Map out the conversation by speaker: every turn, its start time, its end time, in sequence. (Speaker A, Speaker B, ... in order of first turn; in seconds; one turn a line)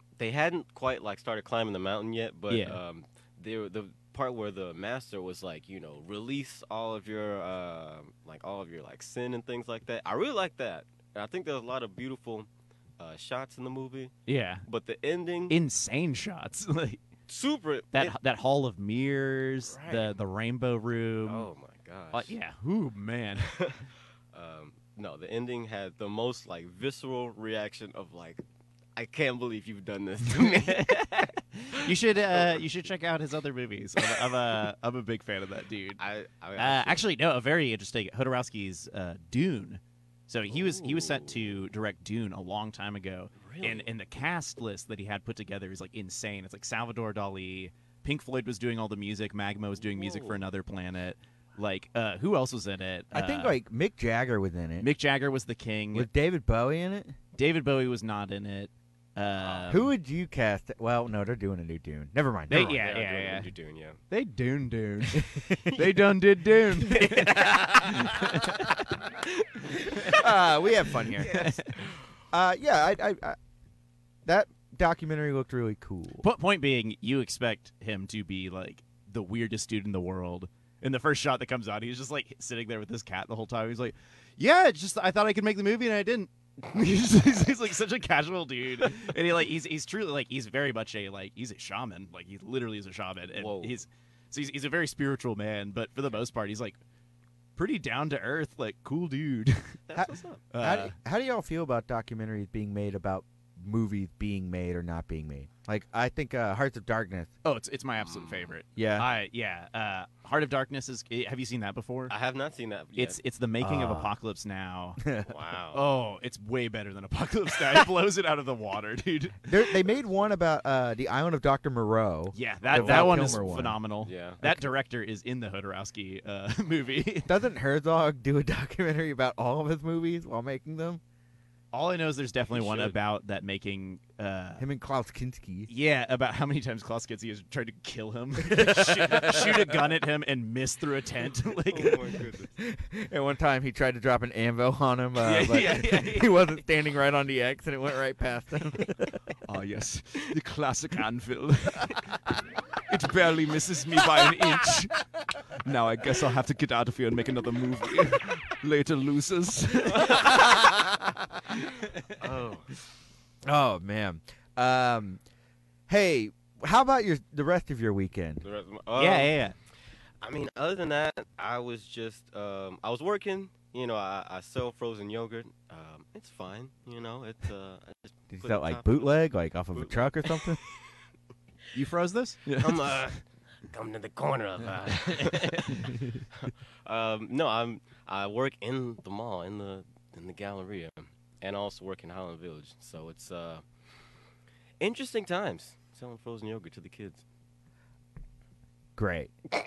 Speaker A: 0.2-15.6
Speaker B: 2.5-2.8
Speaker B: 14.3-14.6
Speaker B: 15.5-17.0
Speaker A: 17.3-18.1
Speaker B: 17.9-21.5
Speaker A: 19.7-20.1
Speaker A: 21.2-22.3
Speaker B: 22.1-23.7
Speaker A: 23.5-23.8
Speaker A: 24.3-28.4
Speaker A: 29.0-30.9
Speaker B: 30.3-36.0
Speaker A: 31.9-32.7
Speaker A: 36.0-37.0
Speaker B: 36.6-53.6
Speaker A: 40.5-41.4
Speaker A: 43.4-43.9
Speaker A: 49.8-50.5
Speaker C: 53.1-54.9
Speaker B: 54.8-56.1
Speaker C: 55.9-57.1
Speaker B: 57.4-59.9
Speaker A: 59.4-59.8
Speaker C: 59.7-62.8
Speaker B: 62.5-63.5
Speaker A: 62.5-64.0
Speaker B: 64.1-68.9
Speaker C: 65.1-65.8
Speaker C: 66.8-68.0
Speaker A: 67.1-68.1
Speaker C: 70.1-71.5
Speaker A: 71.2-71.5
Speaker B: 71.2-71.8
Speaker C: 72.3-73.4
Speaker C: 74.2-76.2
Speaker B: 76.2-96.8
Speaker A: 93.4-93.8
Speaker B: 97.6-99.8
Speaker A: 99.9-100.4
Speaker C: 100.0-107.3
Speaker B: 100.5-101.0
Speaker B: 107.4-112.1
Speaker A: 108.0-108.5
Speaker C: 108.8-109.1
Speaker A: 112.1-113.2
Speaker B: 113.0-115.0
Speaker C: 113.6-114.1
Speaker C: 115.0-115.3
Speaker A: 115.3-115.8
Speaker B: 115.7-119.5
Speaker C: 119.5-123.8
Speaker B: 122.3-127.3
Speaker A: 122.6-124.4
Speaker C: 127.2-131.0
Speaker B: 131.7-134.6
Speaker A: 132.5-133.0
Speaker C: 134.6-135.7
Speaker B: 135.7-142.0
Speaker C: 138.4-139.8
Speaker A: 141.7-142.5
Speaker C: 142.6-149.2
Speaker B: 145.2-146.3
Speaker B: 149.5-152.0
Speaker B: 152.9-155.0
Speaker B: 155.5-160.6
Speaker A: 159.9-160.9
Speaker B: 161.6-162.1
Speaker A: 162.2-162.7
Speaker C: 163.5-165.2
Speaker C: 165.9-168.4
Speaker A: 168.4-169.3
Speaker B: 169.0-169.5
Speaker A: 170.2-179.1
Speaker C: 178.3-180.6
Speaker A: 179.8-180.6
Speaker B: 181.7-183.0
Speaker A: 182.6-193.6
Speaker B: 185.1-185.8
Speaker A: 194.8-197.2
Speaker C: 199.0-199.3